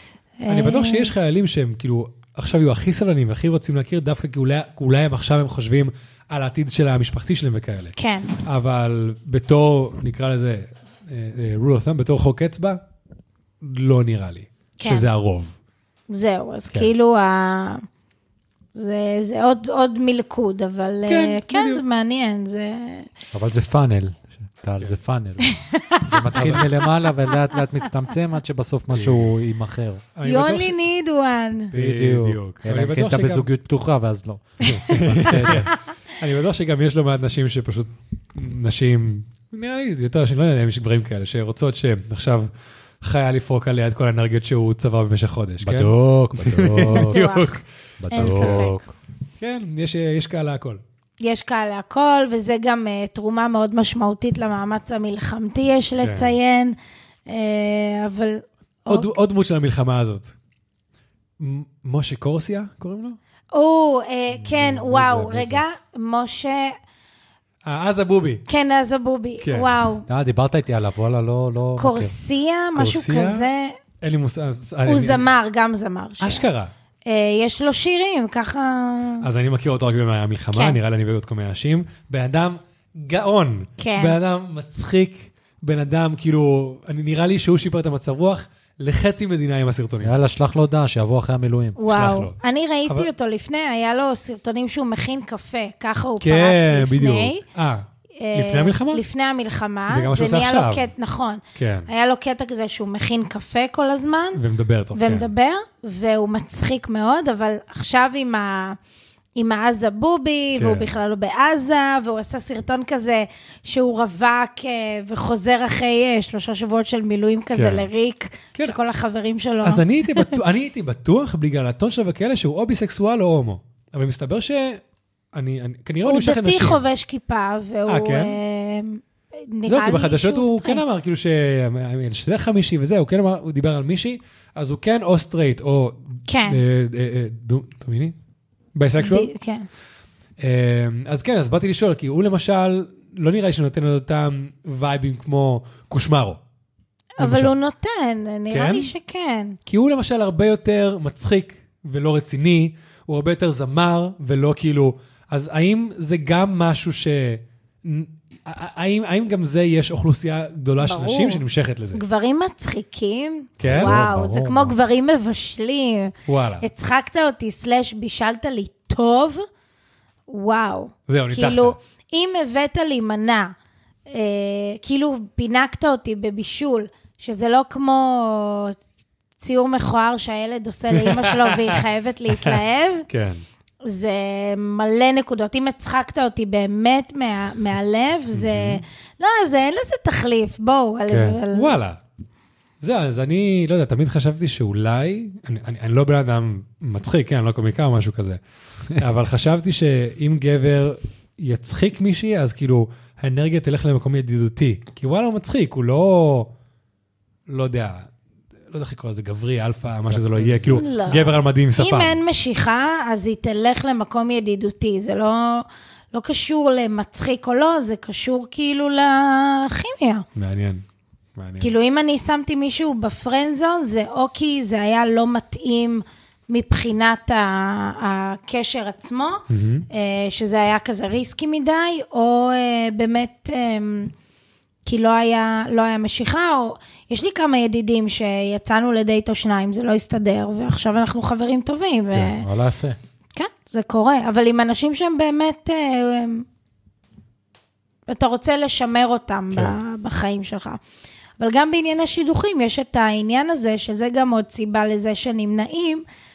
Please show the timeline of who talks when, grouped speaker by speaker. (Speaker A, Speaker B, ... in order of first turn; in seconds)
Speaker A: 0.4-1.1, 8.0-8.3, 14.8-15.1, 16.1-17.8, 18.7-23.1, 25.4-27.1, 30.2-31.7, 46.8-48.8, 51.2-59.1, 63.5-66.7, 68.5-70.0, 71.8-73.8, 74.9-76.5, 77.0-79.3, 83.8-84.2, 91.8-97.4, 98.2-104.4, 104.9-108.8, 109.4-120.4, 126.0-130.8, 136.3-136.6, 139.0-139.7, 147.2-149.6, 160.8-161.4, 161.9-169.4, 170.3-173.5, 174.1-178.8, 179.4-183.1, 183.9-191.8, 210.7-220.2, 221.6-234.1, 234.9-242.4, 243.3-246.4, 248.1-250.8, 251.4-256.0
Speaker B: 0.5-12.8, 13.6-15.5, 21.1-21.8, 26.3-26.6, 28.9-29.3, 30.1-30.8, 31.7-33.5, 34.7-42.5, 43.0-47.6, 48.1-48.7, 49.4-50.8, 56.0-56.3, 58.9-60.3, 61.4-63.2, 64.4-65.6, 67.6-68.4, 69.4-69.7, 72.7-73.5, 74.0-75.3, 76.2-76.7, 79.2-90.2, 91.9-93.1, 96.2-99.0, 99.9-100.9, 101.5-101.9, 104.3-105.3, 110.5-111.0, 117.5-117.9, 119.6-124.8, 125.3-126.8, 127.9-128.4, 129.7-138.2, 138.7-139.3, 140.4-146.4, 147.2-147.5, 148.5-148.9, 149.7-162.0, 163.6-164.0, 166.3-166.7, 171.1-171.8, 180.9-181.8, 182.4-183.4, 188.3-188.8, 191.5-192.0, 192.8-198.4, 198.9-206.5, 207.5-208.1, 208.7-212.2, 220.4-220.8, 221.4-221.7, 229.5-229.9, 249.5-249.8
Speaker C: 23.3-30.0, 31.7-35.7, 45.6-47.2, 48.0-48.9, 70.1-72.1, 90.0-91.8, 163.7-164.8, 191.1-191.4, 210.0-210.8, 242.1-243.0